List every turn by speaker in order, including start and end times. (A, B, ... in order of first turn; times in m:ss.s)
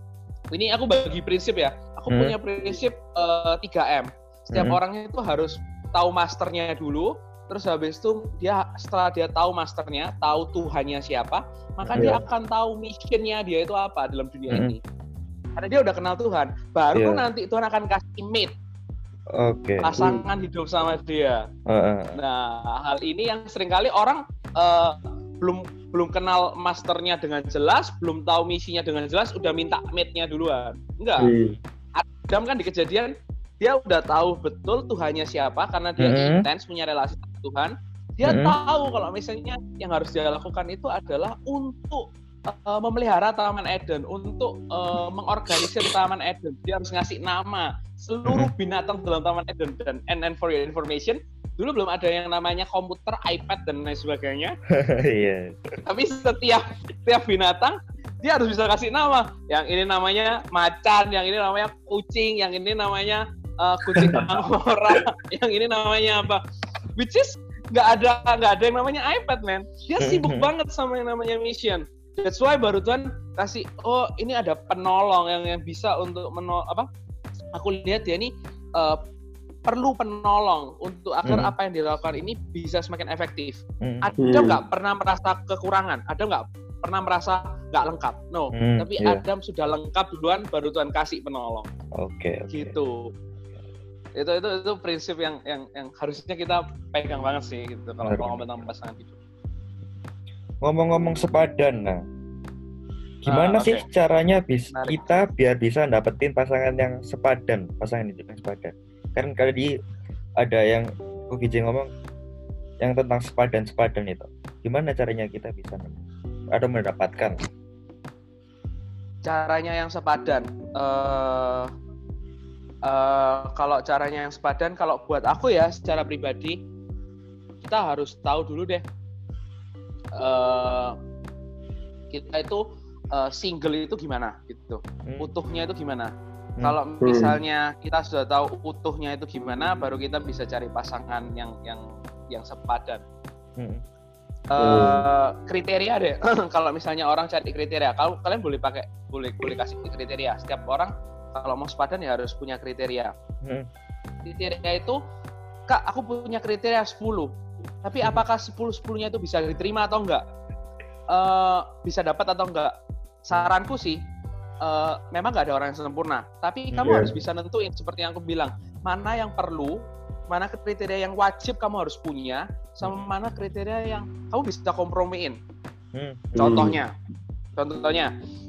0:00.5-0:14.8 A
0:02.1-0:02.4 B
0:04.5-0:04.8 B
0:11.8-0:12.1 B
0:12.0-0:12.2 C
0:14.5-0:14.8 B
0:15.6-0:18.5 A
0:17.0-0:17.3 B
0:19.3-0:20.0 B
0:19.8-0:21.5 A
0:20.0-0:20.2 C
0:21.7-0:22.2 B
0:22.2-0:31.3 A
0:31.2-0:31.6 C
0:32.0-0:54.6 A
0:36.0-0:36.5 B
0:38.2-0:38.6 B
0:54.7-0:55.6 B
0:55.8-1:06.4 A
1:04.0-1:04.3 C
1:07.0-1:16.9 A
1:10.0-1:10.5 B
1:17.5-1:19.0 A
1:19.7-1:31.7 A
1:21.3-1:21.5 B
1:23.8-1:24.1 B
1:24.2-1:24.6 C
1:28.5-1:29.2 B
1:32.0-1:32.8 B
1:32.5-1:33.1 A
1:34.2-1:39.2 A
1:38.0-1:38.6 B
1:40.6-1:42.0 B
1:43.3-1:43.8 A
1:43.3-1:49.7 B
1:44.7-1:45.2 A
1:50.4-1:51.9 B
1:52.8-1:56.0 B
1:56.5-1:57.4 B
1:59.2-2:01.7 A
2:02.8-2:06.6 A
2:07.6-2:08.8 A
2:10.2-2:11.0 A
2:12.1-2:23.0 A
2:15.0-2:15.3 B
2:17.0-2:17.4 C
2:23.6-2:23.8 B
2:24.5-2:33.1 A
2:24.6-2:25.1 C
2:33.4-2:33.7 B
2:34.2-2:35.0 A
2:35.7-2:37.3 A
2:37.8-2:40.2 A
2:41.1-2:42.7 A
2:43.2-2:44.0 A
2:44.6-2:55.4 A
2:46.7-2:47.1 B
2:46.8-2:47.2 C
2:52.8-2:53.1 B
2:55.9-2:56.6 B
2:56.4-2:56.8 C
2:56.4-2:56.9 A
2:57.6-2:58.1 A